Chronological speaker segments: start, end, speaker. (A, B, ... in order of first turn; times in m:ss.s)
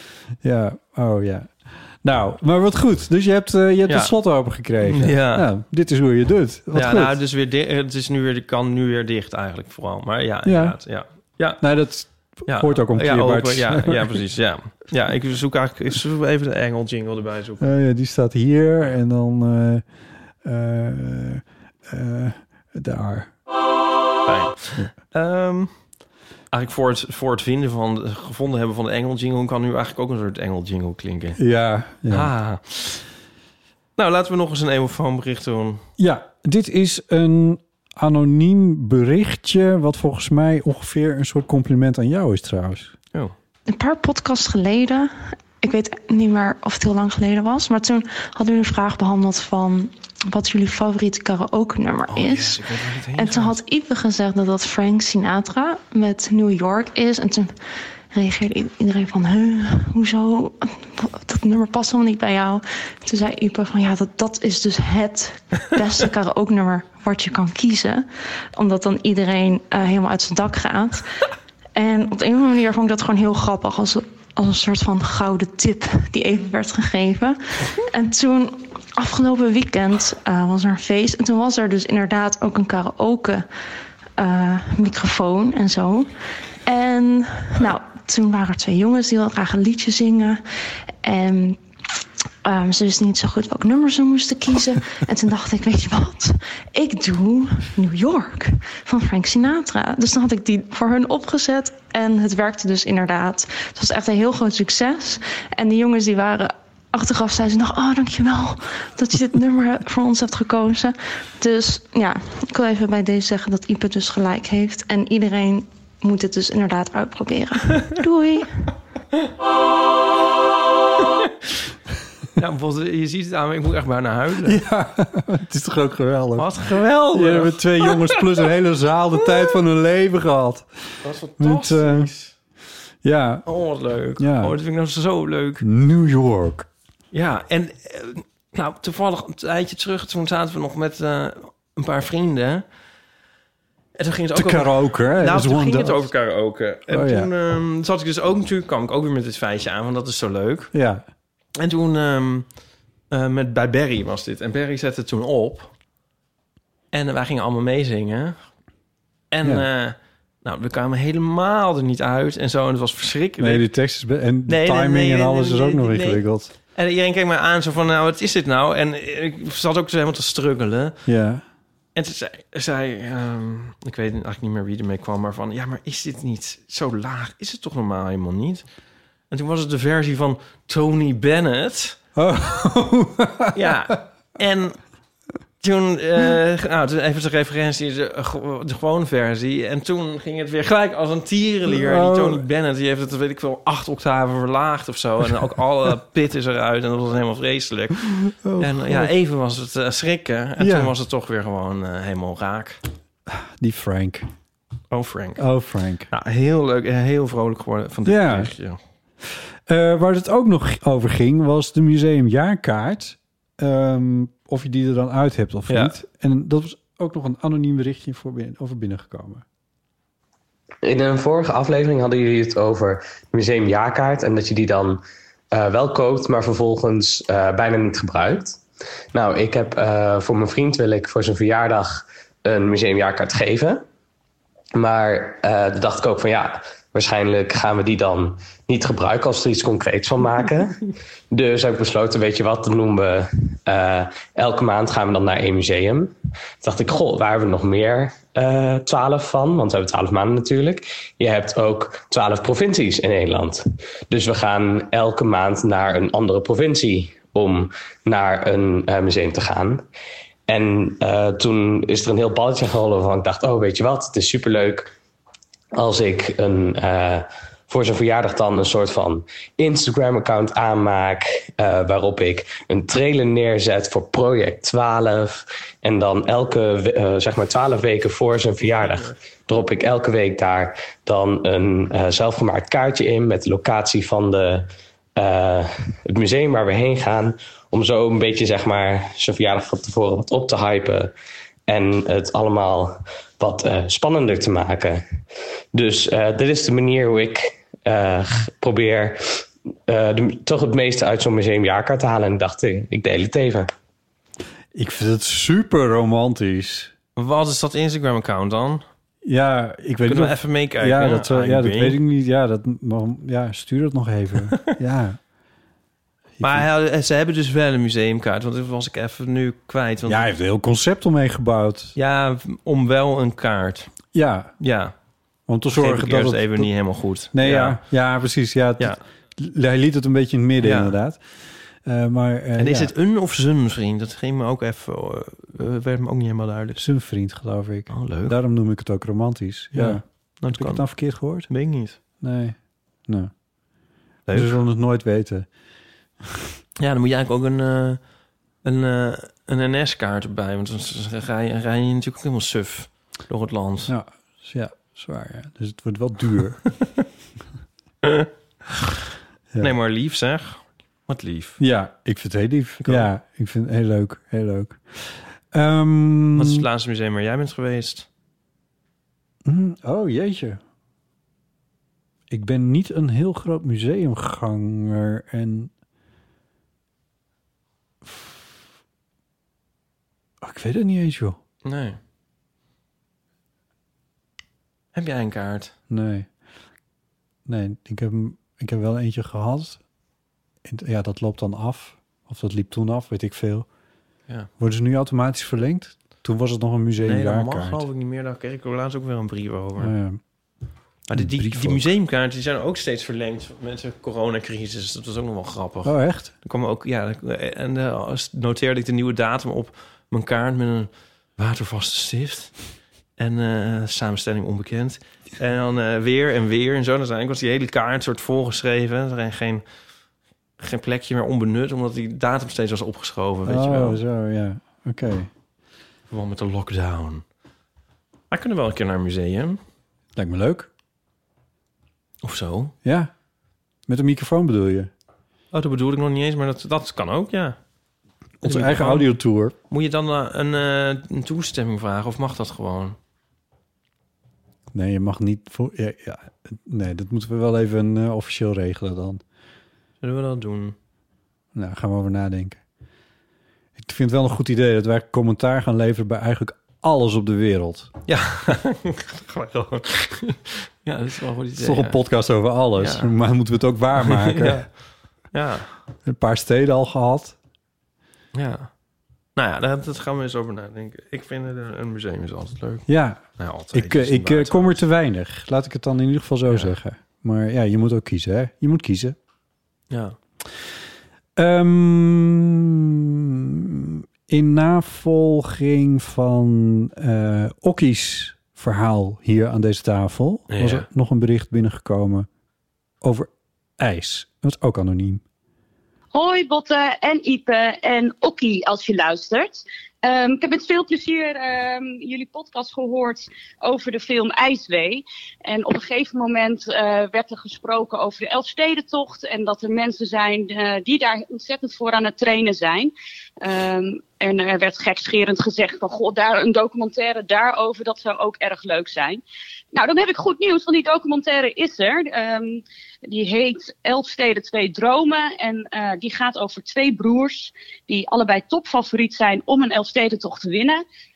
0:00.4-0:07.1 A
0:03.9-0:04.1 B
0:04.8-0:05.5 B
0:06.7-0:11.6 B
0:10.4-0:10.8 A
0:11.6-0:14.2 A
0:12.5-0:17.7 B
0:17.6-0:19.8 A
0:20.4-0:23.3 A
0:24.2-0:25.7 B
0:26.5-0:31.4 B
0:31.4-0:32.3 A
0:32.1-0:33.0 B
0:34.0-0:35.8 B
0:36.0-0:42.9 A
0:43.7-0:57.5 C
0:52.1-0:53.6 B
0:58.1-1:11.0 C
1:11.8-1:23.4 C
1:24.2-1:26.1 C
1:26.6-1:30.4 C
1:31.0-1:31.6 C
1:32.4-1:58.5 C
2:02.4-2:04.6 B
2:04.4-2:06.5 A
2:06.4-2:08.2 B
2:07.1-2:10.7 A
2:11.0-2:12.3 B
2:11.4-2:12.1 A
2:13.0-2:13.4 A
2:13.4-2:15.6 B
2:14.2-2:14.6 A
2:15.6-2:16.7 A
2:17.1-2:22.6 B
2:24.0-2:30.7 B
2:24.3-2:26.1 A
2:26.9-2:27.3 A
2:30.7-2:31.0 A
2:31.6-2:32.4 B
2:33.1-2:35.7 B
2:36.9-2:38.4 B
2:39.3-2:43.7 B
2:43.4-2:46.5 A
2:44.5-2:46.2 B
2:46.7-2:51.0 B
2:51.0-2:51.4 A
2:52.0-2:58.6 B
2:59.3-3:02.0 B
3:02.2-3:03.7 A
3:03.5-3:04.8 B
3:05.6-3:22.8 B
3:11.7-3:12.4 A
3:18.4-3:19.1 A
3:20.6-3:20.9 A
3:23.3-3:24.3 A
3:24.9-3:25.4 B
3:25.4-3:26.1 A
3:26.1-3:28.8 B
3:28.0-3:28.5 A
3:29.7-3:39.4 A
3:35.7-3:35.9 B
3:40.8-3:48.6 D
3:49.1-3:53.8 D
3:54.7-4:00.8 D
4:01.3-4:19.8 D
4:20.5-4:24.9 D
4:25.7-4:51.1 D
4:38.6-4:39.2 B
4:51.7-4:55.0 D
4:55.7-4:59.2 D
4:59.9-5:03.7 D
5:04.7-5:06.9 A
5:07.2-5:08.8 B
5:09.2-5:15.2 A
5:10.1-5:12.0 B
5:16.4-5:16.6 A
5:16.4-5:20.3 B
5:20.0-5:21.9 A
5:22.0-5:23.9 B
5:24.1-5:24.5 A
5:24.6-5:24.9 B
5:25.5-5:26.7 A
5:25.7-5:27.8 B
5:27.3-5:31.2 A
5:30.6-5:30.9 B
5:31.8-5:32.9 A
5:32.6-5:36.8 B
5:36.8-5:41.5 A
5:37.9-5:38.4 B
5:39.7-5:42.0 B
5:42.2-5:42.6 A
5:44.3-5:44.6 B
5:44.3-5:45.5 A
5:46.8-5:48.0 B
5:48.6-5:53.9 B
5:53.9-5:56.6 A
5:59.6-6:01.6 B
6:01.6-6:06.6 A
6:06.3-6:08.1 B
6:09.4-6:10.6 A
6:12.3-6:15.7 A
6:18.0-6:18.4 A
6:20.4-6:21.4 A
6:21.6-6:22.0 B
6:24.9-6:25.7 B
6:25.9-6:26.3 A
6:27.4-6:29.8 A
6:30.6-6:33.7 A
6:34.6-6:37.8 A
6:37.0-6:39.9 B
6:39.8-6:40.2 A
6:41.1-6:52.5 B
6:41.1-6:41.9 A
6:45.8-6:46.3 A
6:53.2-6:59.6 B
7:00.6-7:04.0 B
7:03.4-7:05.3 A
7:06.1-7:07.2 B
7:08.3-7:09.6 B
7:10.2-7:10.7 A
7:12.2-7:12.7 B
7:12.8-7:13.1 A
7:13.9-7:14.9 A
7:15.5-7:17.6 B
7:18.4-7:19.5 A
7:18.4-7:19.0 B
7:19.7-7:23.0 B
7:24.7-7:29.2 A
7:30.0-7:30.7 B
7:31.5-7:32.6 A
7:33.8-7:37.9 A
7:38.1-7:42.0 B
7:41.6-7:44.7 A
7:42.8-7:43.1 B
7:44.0-7:44.7 B
7:45.3-7:45.7 B
7:46.0-7:47.4 A
7:48.3-7:48.7 B
7:49.4-7:54.8 B
7:52.9-7:59.2 A
7:56.5-7:56.7 B
7:59.9-8:00.2 B
8:01.4-8:12.3 A
8:10.5-8:10.8 B
8:13.0-8:15.2 A
8:16.1-8:39.2 E
8:39.7-8:50.8 E